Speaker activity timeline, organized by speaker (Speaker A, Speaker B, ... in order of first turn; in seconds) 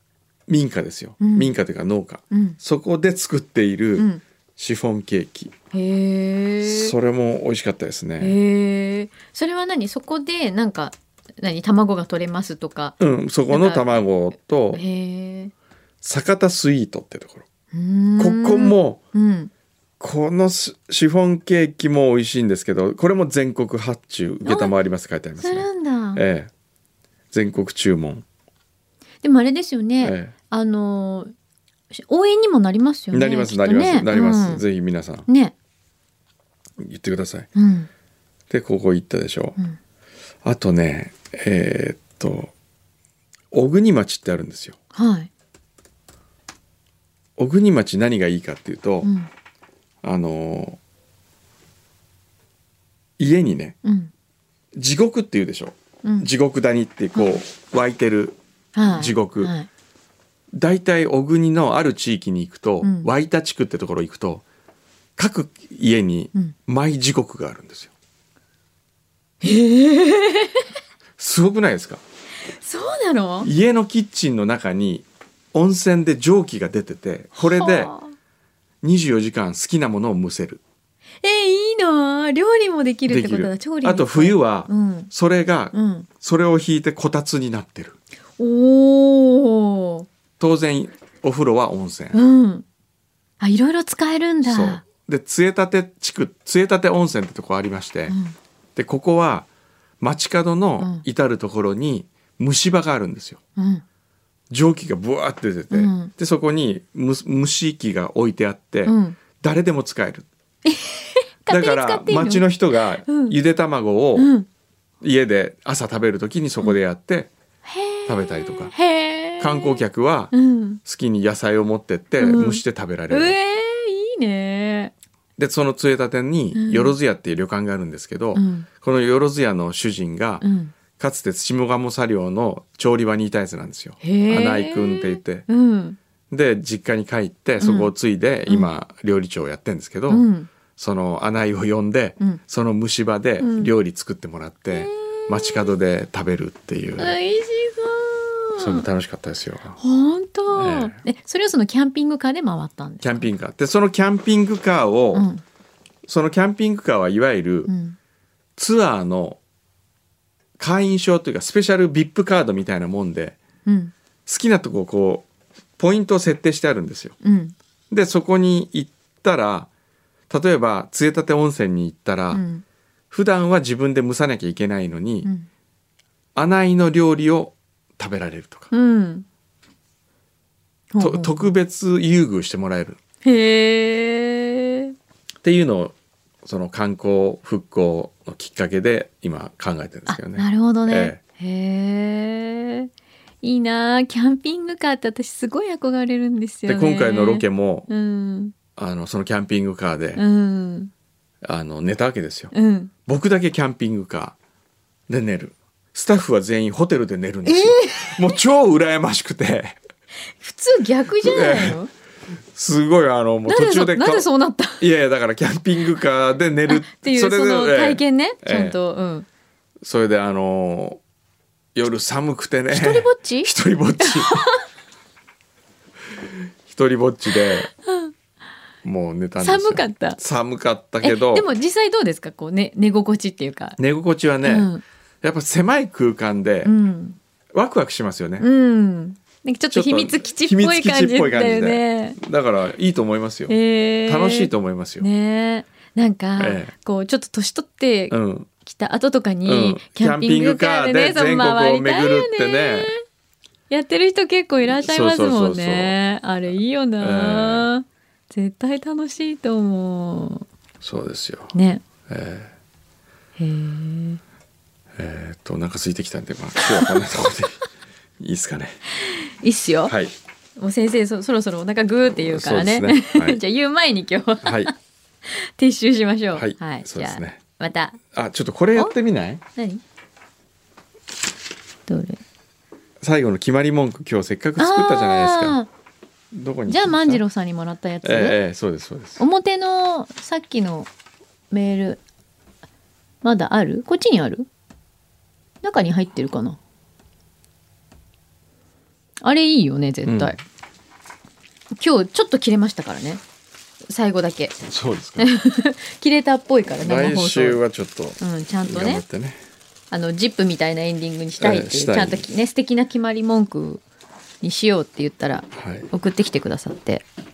Speaker A: 0.5-5.5, 6.6-8.4, 13.0-14.8, 16.0-17.5, 18.2-19.0, 20.0-26.5, 27.3-28.2, 30.0-30.3, 33.1-35.3, 36.8-37.5, 38.5-39.6, 40.4-42.5, 43.5-44.8, 47.4-49.1, 50.0-50.8, 53.2-53.8, 54.8-58.4, 58.9-59.5, 60.5-64.4, 65.2-67.9, 71.2-72.0, 73.4-77.9, 78.8-80.6, 83.1-88.0, 90.4-92.2, 94.4-98.2, 98.8-99.5, 100.0-103.4, 104.5-110.3, 111.5-114.3, 115.0-117.3, 118.1-118.8, 119.4-120.3, 120.8-123.4, 125.4-135.5, 136.3-147.2, 148.6-149.8, 150.5-151.0, 153.0-155.3, 156.1-157.7, 158.6-159.4, 160.6-163.4, 164.3-165.3, 165.8-167.2, 167.9-169.7, 170.3-172.4, 173.1-175.3, 176.4-178.7, 181.0-183.0, 185.4-191.2, 196.7-197.9, 198.8-200.2, 201.4-202.5, 203.1-204.4, 205.1-209.8, 211.2-211.8, 212.5-214.3, 214.8-218.8, 219.8-221.0, 221.8-224.5, 226.7-227.7, 228.8-231.5, 233.8-234.7, 235.2-236.7, 237.5-238.5, 239.7-245.1, 246.4-246.7, 248.1-248.5, 249.4-252.9, 254.6-256.0, 257.0-257.7, 260.8-261.6, 262.1-262.5, 265.0-267.6, 268.2-268.8, 269.9-270.1, 272.1-273.4, 274.4-274.7, 276.3-277.4, 278.1-279.4, 283.0-285.6, 286.3-287.2, 288.0-289.2, 300.1-300.4, 304.7-305.3, 306.8-309.4, 311.4-312.3, 315.5-315.9
Speaker B: 1.2-1.5, 2.3-2.6, 4.0-4.2, 5.7-6.9, 8.2-13.0, 13.5-14.0, 14.7-15.5, 17.7-19.5, 24.4-24.8, 25.4-26.2, 29.2-31.3, 31.9-34.6, 35.3-35.5, 37.5-37.9, 44.9-45.3, 49.0-49.3, 53.8-54.1, 56.0-56.3, 58.7-59.7, 62.8-63.1, 69.4-70.6, 72.6-73.5, 77.4-78.1, 81.2-85.1, 85.7-86.1, 88.4-90.1, 92.1-92.7, 93.4-94.8, 98.1-98.4, 100.8-101.0, 103.6-103.8, 105.7-106.1, 108.8-109.2, 110.7-112.5, 113.1-113.4, 114.2-114.5, 117.7-119.8, 120.3-120.8, 122.2-124.9, 126.5-127.0, 128.3-128.7, 130.4-130.7, 134.0-136.0, 137.6-137.9, 140.1-140.5, 143.4-143.7, 144.7-145.8, 147.0-148.9, 149.8-153.3, 155.1-155.4, 157.7-158.0, 163.7-163.9, 167.2-167.6, 172.3-172.6, 178.7-179.3, 180.9-181.5, 183.2-184.9, 190.1-192.9, 193.4-198.6, 200.2-200.9, 202.5-202.9, 207.4-208.3, 210.4-211.9, 213.5-214.9, 216.7-219.3, 222.7-224.6, 227.4-228.1, 229.4-230.2, 231.0-233.8, 234.4-234.8, 236.6-237.2, 238.4-242.2, 243.5-253.0, 253.7-260.5, 261.5-261.8, 263.4-264.2, 269.1-269.9, 270.6-274.7, 275.3-278.0, 279.6-279.8, 281.9-282.2, 284.6-285.7, 286.7-288.4, 289.2-290.9, 291.5-292.0, 293.2-294.5, 295.6-296.6, 299.2-300.4, 301.8-303.2, 303.9-304.6, 305.2-307.6, 308.2-309.1, 309.9-313.8, 314.4-317.0